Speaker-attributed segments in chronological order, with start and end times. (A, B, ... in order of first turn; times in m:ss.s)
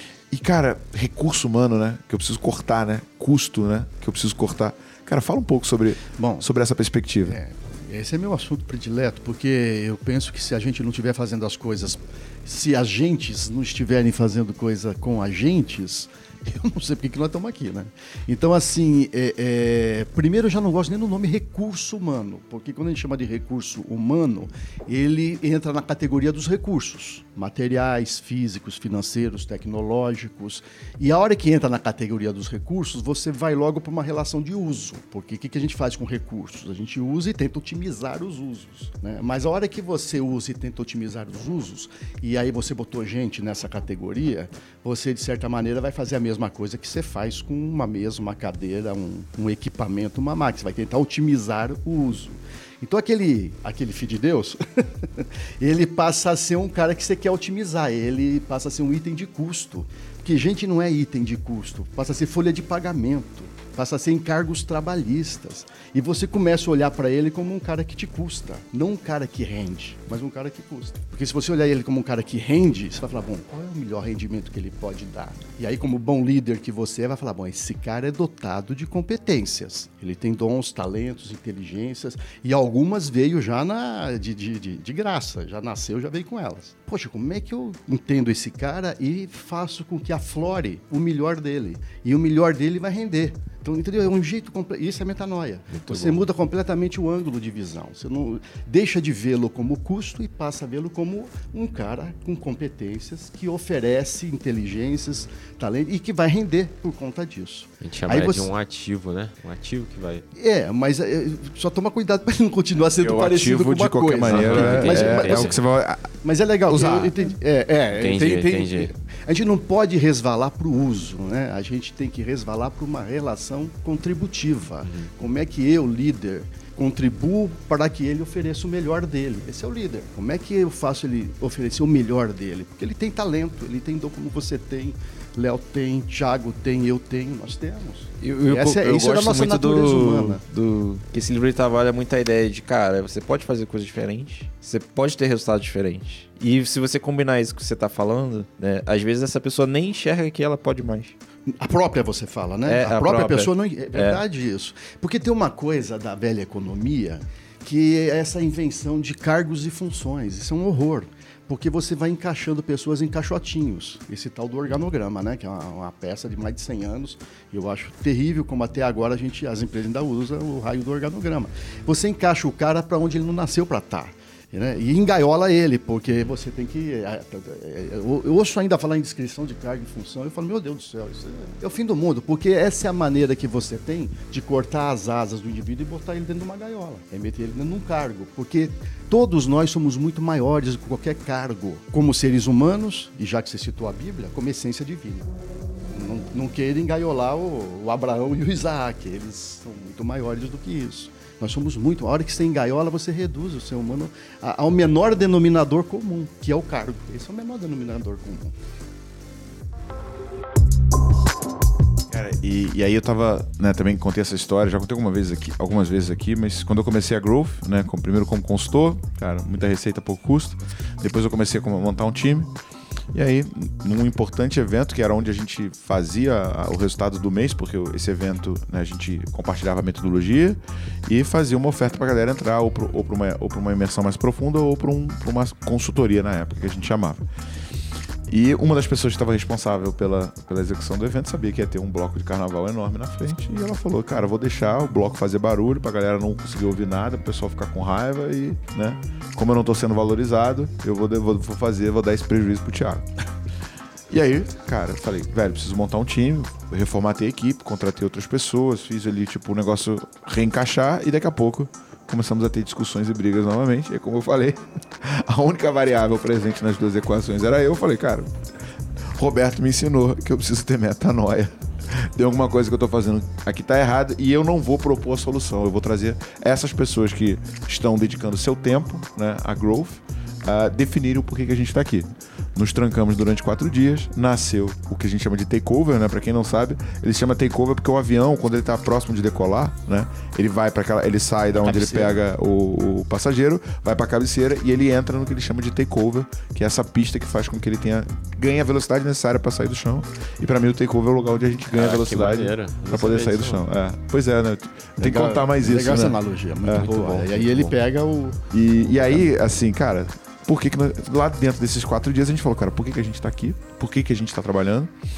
0:00.3-0:07.4 A
0:06.2-0:06.4 B
0:07.2-1:48.5 B
1:35.7-1:36.2 C
1:47.8-1:50.3 C
1:50.4-1:55.6 B
1:53.0-1:56.1 A
1:54.3-1:55.6 C
1:54.4-1:55.2 D
1:56.2-2:20.4 B
1:56.7-1:57.1 A
1:57.9-1:58.9 C
2:04.8-2:05.1 C
2:18.2-2:31.2 D
2:31.5-3:15.3 B
2:32.7-2:34.2 D
3:15.9-3:28.6 B
3:32.1-3:42.5 A
3:43.1-3:57.3 A
3:58.3-4:13.1 A
4:14.1-4:28.4 A
4:29.1-5:07.8 A
4:51.5-4:52.2 B
5:01.7-5:03.6 C
5:05.0-5:09.3 B
5:08.5-5:14.9 A